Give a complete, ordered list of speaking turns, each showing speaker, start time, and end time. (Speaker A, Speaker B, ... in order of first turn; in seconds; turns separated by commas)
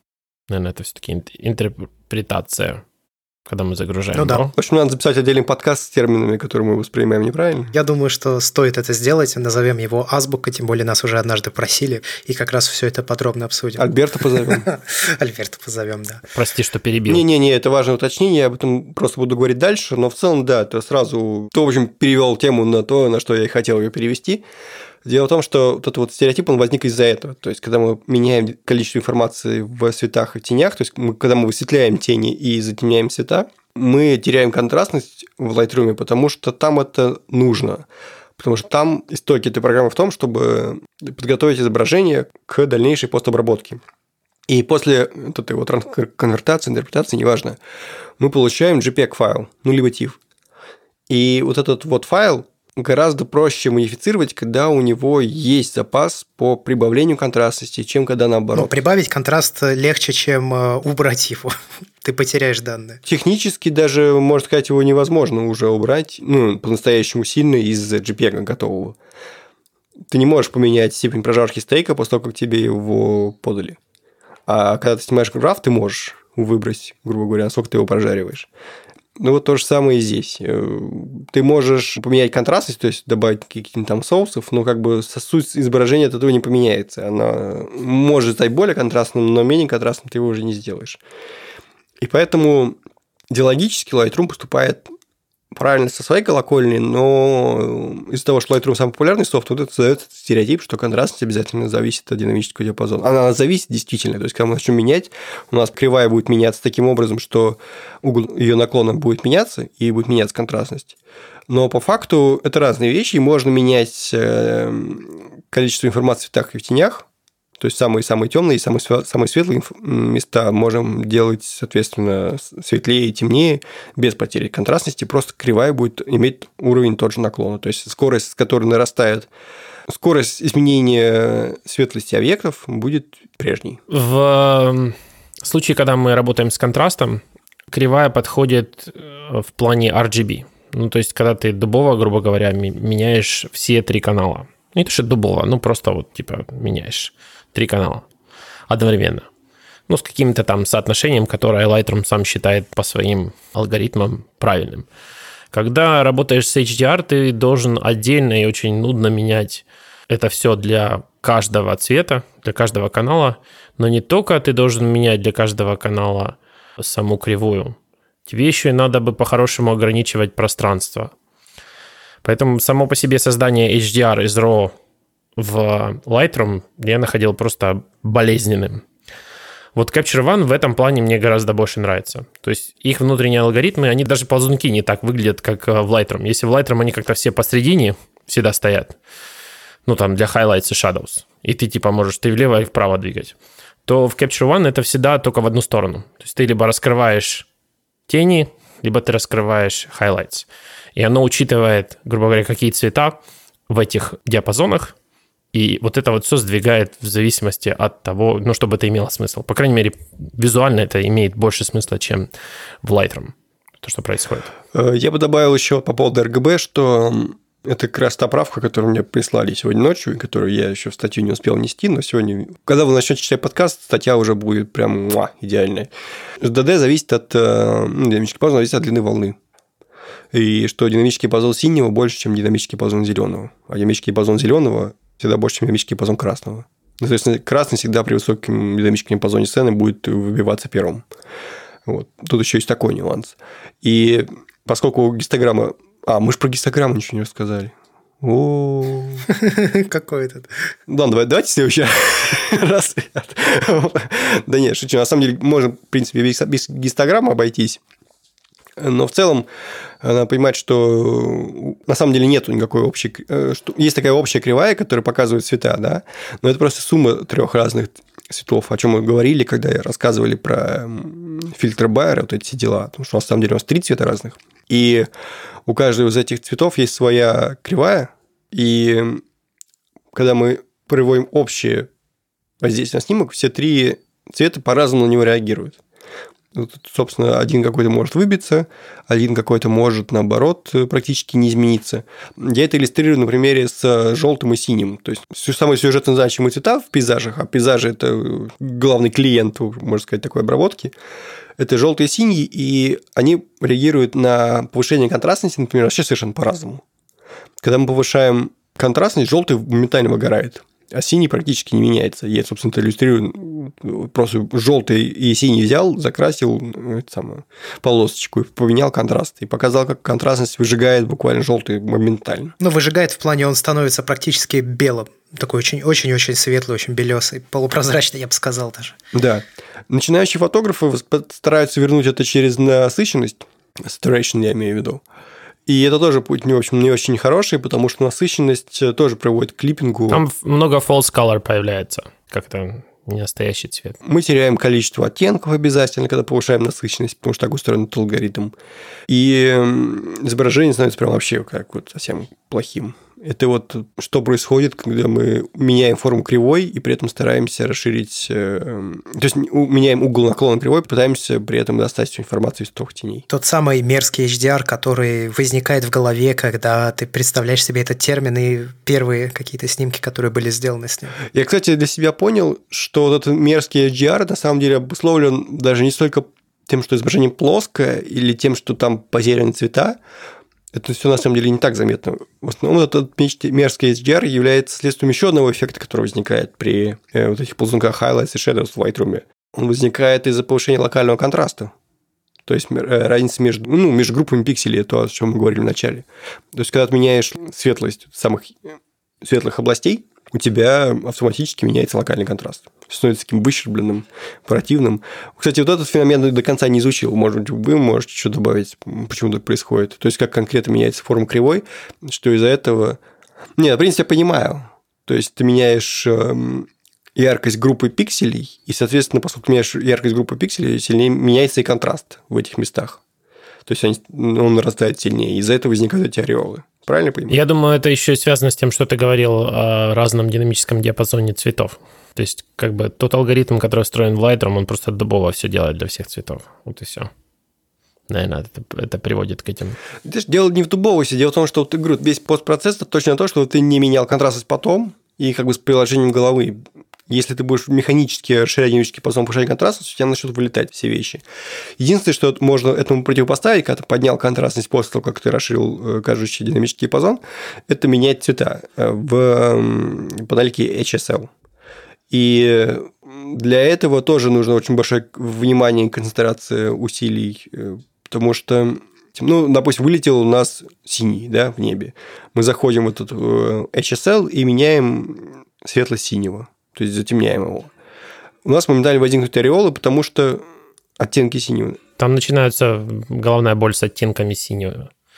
Speaker A: 0.5-2.8, Speaker A: 3.5-4.5, Speaker B: 4.1-4.5, Speaker C: 4.5-7.7, Speaker B: 7.7-13.8, Speaker C: 13.8-14.7, Speaker B: 14.5-16.2, Speaker A: 16.3-17.2, Speaker C: 17.1-24.4, Speaker C: 25.0-37.9, Speaker C: 38.4-43.8, Speaker C: 44.5-47.6, Speaker C: 48.2-50.2, Speaker C: 51.1-58.7, Speaker B: 58.5-63.0, Speaker C: 63.0-69.0, Speaker C: 70.1-73.8, Speaker C: 74.5-78.5, Speaker C: 79.2-91.0, Speaker C: 92.0-92.8, Speaker C: 93.3-94.9, Speaker C: 95.5-110.9, Speaker C: 111.5-117.0, Speaker C: 117.6-129.3, Speaker C: 129.9-133.8, Speaker A: 133.9-148.0, Speaker A: 148.7-149.3, Speaker A: 149.9-154.8, Speaker A: 155.5-167.8, Speaker A: 168.3-171.1, Speaker A: 172.2-174.7, Speaker A: 175.4-178.8, Speaker A: 179.7-189.0, Speaker A: 189.8-193.3, Speaker A: 193.9-197.4, Speaker A: 198.1-203.2, Speaker A: 203.7-204.9, Speaker A: 205.5-212.3, Speaker A: 212.8-214.5, Speaker C: 214.7-225.9, Speaker C: 226.4-229.4, Speaker C: 230.3-241.1, Speaker C: 241.8-249.2, Speaker B: 249.3-250.5, Speaker C: 250.9-257.8, Speaker C: 258.8-259.5, Speaker C: 260.0-275.1, Speaker C: 275.6-279.2, Speaker C: 280.1-281.9, Speaker C: 282.6-285.8, Speaker C: 286.5-300.9, Speaker C: 301.6-306.8, Speaker C: 307.6-322.5, Speaker B: 322.6-328.9, Speaker C: 329.1-335.0, Speaker C: 335.7-340.2, Speaker A: 340.1-344.0, Speaker C: 344.0-348.5, Speaker C: 349.1-363.2, Speaker B: 363.3-371.2, Speaker C: 371.3-380.0, Speaker C: 380.7-391.7, Speaker C: 392.4-413.0, Speaker C: 413.6-423.0, Speaker C: 423.6-427.4, Speaker A: 427.3-437.1, Speaker A: 438.1-439.8, Speaker C: 440.0-451.2, Speaker C: 451.8-461.3, Speaker C: 462.1-477.7, Speaker C: 478.4-480.4, Speaker C: 481.0-481.8, Speaker A: 482.0-484.9